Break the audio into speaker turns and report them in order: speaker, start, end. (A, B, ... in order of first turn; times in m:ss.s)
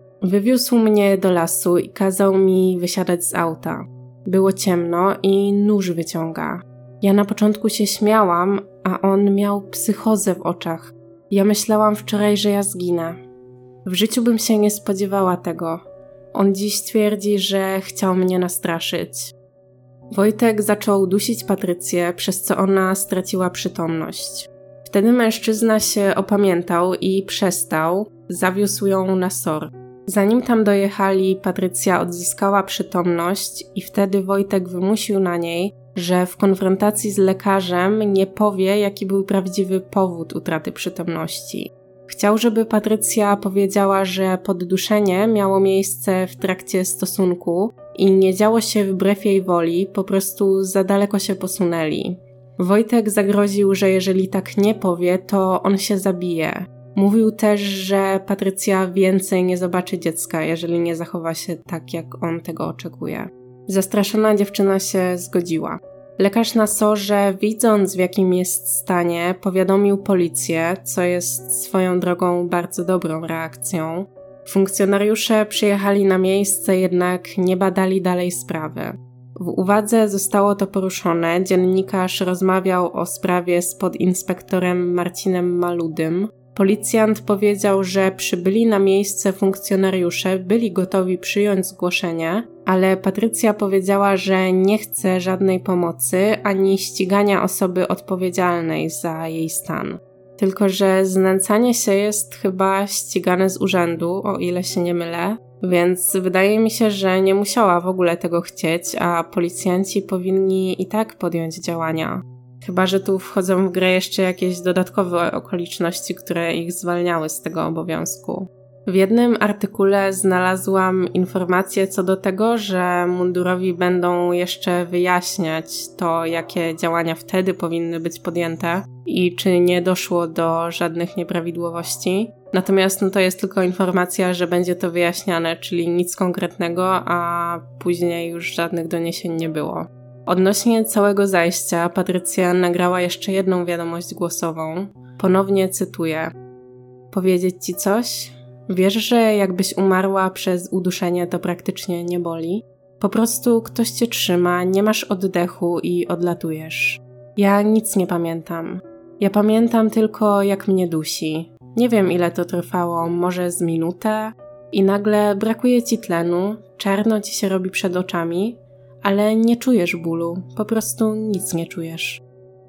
0:00.2-0:13.2 A
0:13.8-0:19.3 A
0:20.1-2:26.3 A
2:27.1-2:52.2 A